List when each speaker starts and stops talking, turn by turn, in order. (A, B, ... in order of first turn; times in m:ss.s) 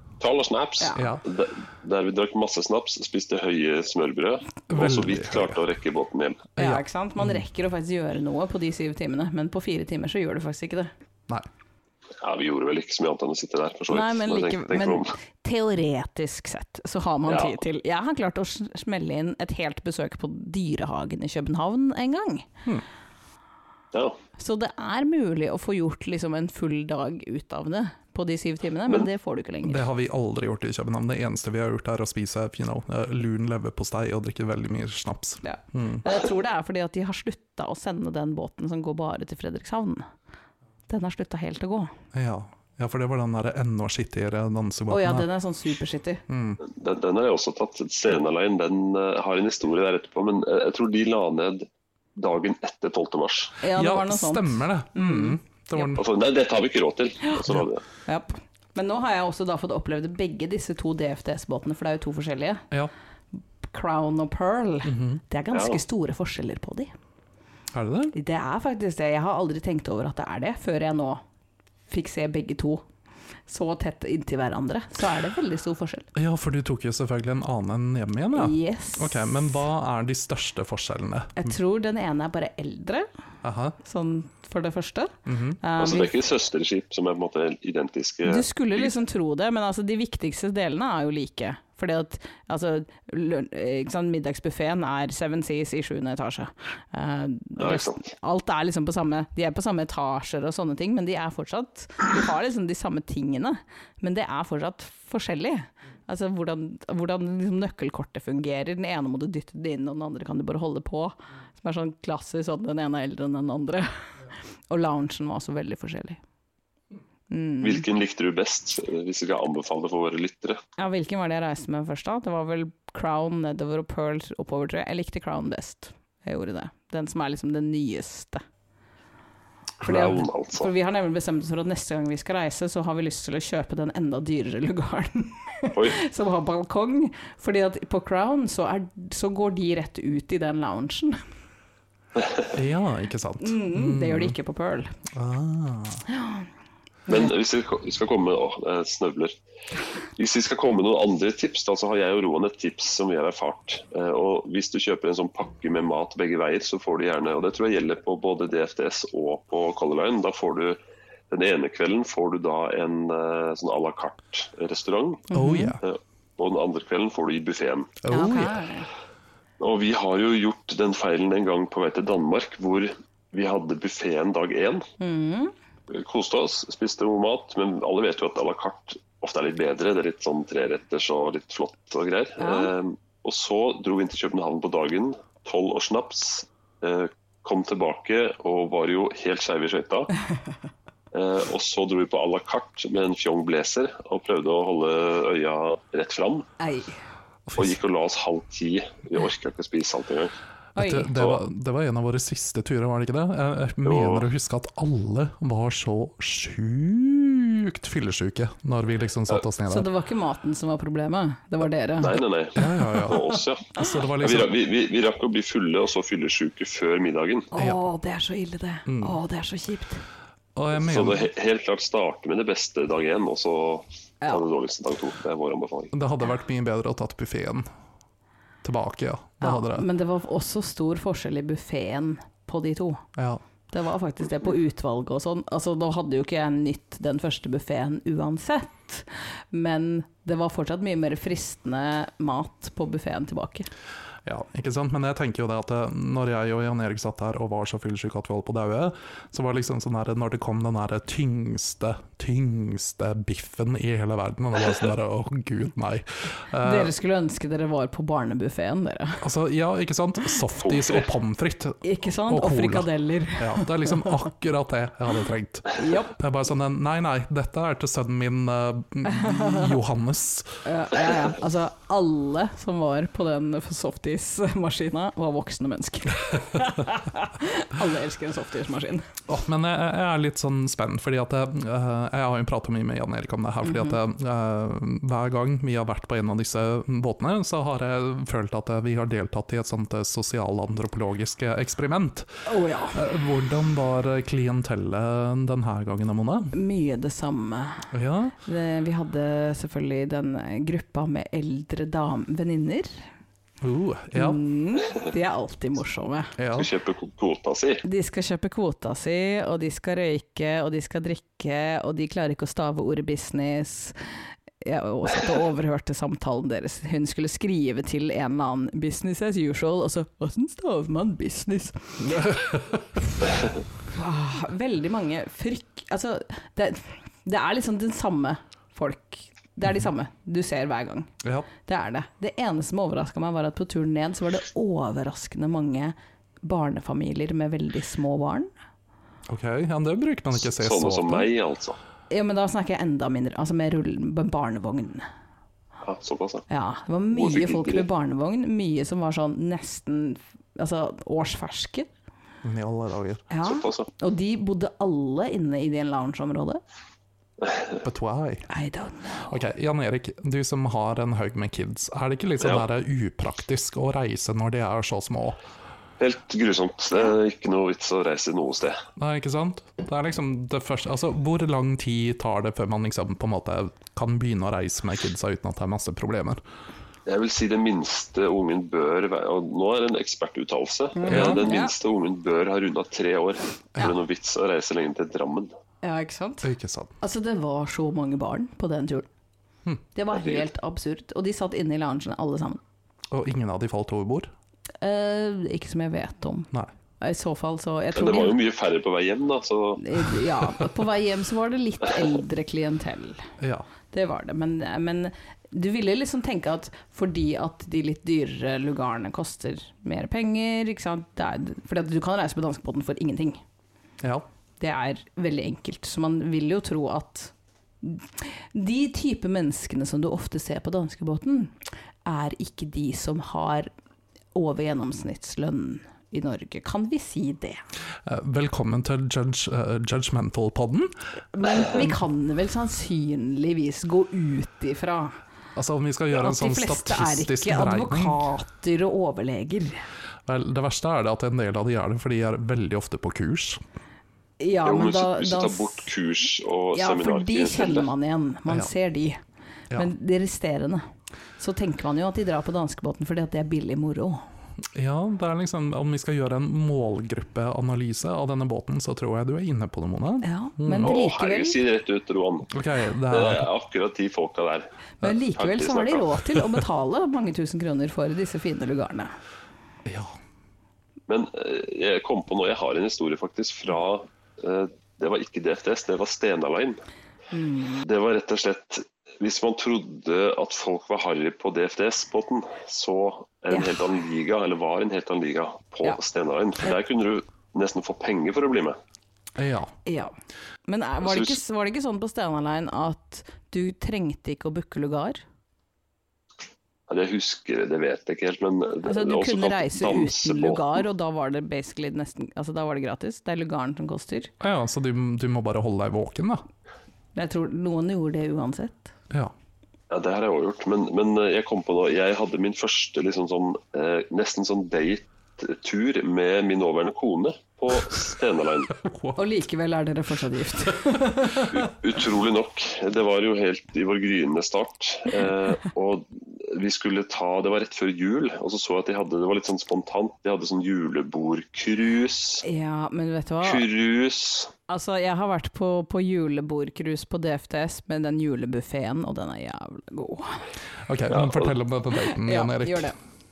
0:00.2-0:06.5 A
0:01.0-0:01.2 B
0:04.7-0:05.6 B
0:06.6-0:07.4 B
0:06.6-0:10.9 C
0:12.2-0:15.1 A
0:13.9-0:22.5 C
0:17.3-0:17.6 A
0:24.4-0:29.8 C
0:29.6-0:36.0 B
0:35.4-0:40.0 C
0:40.9-0:41.9 C
0:42.1-0:45.3 B
0:44.9-0:46.2 C
0:46.3-0:46.6 B
0:46.6-0:53.5 A
0:53.6-0:55.9 C
0:53.7-0:56.0 B
0:56.0-0:57.8 A
0:58.0-1:02.6 C
1:03.6-1:06.9 C
1:04.8-1:05.2 B
1:05.5-1:05.8 A
1:07.7-1:08.1 B
1:08.1-1:11.2 C
1:11.9-1:12.8 C
1:13.5-1:16.1 C
1:16.1-1:21.6 B
1:18.3-1:19.3 C
1:21.4-1:23.1 C
1:23.4-1:23.8 B
1:23.8-1:26.1 C
1:25.2-1:25.6 B
1:25.8-1:28.9 A
1:28.2-1:54.1 C
1:37.6-1:38.0 A
1:54.7-1:56.2 C
1:57.3-1:57.8 C
1:57.6-2:00.6 A
2:00.8-2:08.4 C
2:09.8-2:10.7 A
2:09.8-2:21.2 C
2:22.5-2:24.4 B
2:23.4-2:24.9 C
2:25.1-2:26.0 B
2:26.1-2:26.4 C
2:27.1-2:29.3 A
2:30.2-2:40.8 A
2:41.3-2:45.3 A
2:45.3-2:45.8 C
2:45.3-2:45.8 B
2:45.8-2:48.0 A
2:48.0-2:48.6 B
2:48.1-2:48.9 C
2:49.6-2:54.8 A
2:55.0-2:55.5 C
2:55.9-3:10.1 A
3:02.4-3:02.7 C
3:11.1-3:16.5 A
3:16.6-3:17.0 C
3:17.5-3:17.8 B
3:17.6-3:20.3 A
3:20.8-3:21.1 C
3:20.8-3:29.9 B
3:21.2-3:21.4 A
3:23.8-3:24.3 A
3:29.7-3:32.7 C
3:32.0-3:37.5 A
3:32.6-3:33.2 B
3:33.8-3:34.5 B
3:37.5-3:40.0 C
3:38.9-3:39.2 B
3:40.6-3:41.3 B
3:40.8-3:45.9 A
3:45.9-3:47.7 B
3:48.6-3:49.8 B
3:49.4-3:53.0 C
3:53.2-3:53.4 B
3:53.7-4:03.7 C
4:04.2-4:16.9 B
4:16.6-4:19.2 C
4:19.2-4:30.6 B
4:20.7-4:21.0 A
4:21.8-4:24.2 C
4:25.8-4:26.2 C
4:29.0-4:29.8 C
4:30.6-4:39.1 C
4:39.3-4:52.3 B
4:43.6-4:44.0 C
4:52.4-4:53.0 C
4:52.9-4:56.5 B
4:56.5-4:57.9 C
4:57.9-4:58.4 B
4:58.4-5:02.9 C
5:03.6-5:04.4 B
5:04.1-5:06.3 C
5:06.4-5:06.7 B
5:06.6-5:07.8 A
5:07.8-5:14.0 C
5:14.6-5:22.3 C
5:22.0-5:22.8 B
5:23.9-5:31.1 C
5:31.2-5:31.5 B
5:31.6-5:38.5 C
5:39.3-5:41.3 B
5:40.4-5:41.8 A
5:42.1-5:45.0 C
5:45.8-5:46.4 A
5:46.5-5:51.9 C
5:47.1-5:47.8 A
5:52.4-5:53.2 B
5:53.3-5:56.6 C
5:53.4-5:53.9 A
5:57.8-5:58.5 B
5:58.5-5:59.3 C
5:59.2-6:05.4 B
6:02.4-6:02.6 A
6:06.0-6:08.8 A
6:09.0-6:16.4 B
6:17.0-6:25.5 A
6:21.0-6:21.7 C
6:21.1-6:21.5 B
6:25.8-6:26.5 C
6:26.4-6:26.9 B
6:27.0-6:29.1 C
6:29.9-6:32.6 C
6:30.2-6:30.4 A
6:33.1-6:34.3 B
6:34.8-6:36.5 C
6:37.0-6:38.4 C
6:37.9-6:39.8 A
6:39.8-6:43.3 C
6:43.4-6:43.7 B
6:43.9-6:53.4 C
6:54.6-7:03.7 C
7:04.3-7:07.6 C
7:08.0-7:10.9 B
7:11.3-7:15.2 C
7:15.6-7:18.2 B
7:16.1-7:19.8 C
7:20.2-7:23.6 B
7:24.4-7:25.9 C
7:24.6-7:27.9 A
7:26.7-7:29.2 C
7:29.7-7:30.8 C
7:31.4-7:34.2 C
7:34.7-7:41.0 B
7:40.2-7:41.6 C
7:40.8-7:42.6 A
7:42.5-7:43.5 B
7:43.1-7:44.7 A
7:45.0-7:49.1 C
7:45.3-7:46.1 A
7:49.8-7:50.2 B
7:51.1-7:56.8 A
7:57.3-7:57.8 C
7:57.8-8:08.8 A
8:09.4-8:09.7 B
8:09.8-8:10.1 C
8:10.7-8:15.2 C
8:11.0-8:11.4 A
8:16.9-8:20.8 A
8:18.8-8:24.3 C
8:24.4-8:26.4 B
8:27.1-8:28.9 C
8:29.9-8:38.7 A
8:38.7-8:39.3 B
8:39.2-8:41.5 C
8:41.5-8:52.4 A
8:52.4-8:53.7 C
8:53.4-8:54.5 A
8:54.7-9:00.4 C
9:00.8-9:02.9 B
9:01.1-9:01.5 A
9:02.0-9:03.0 C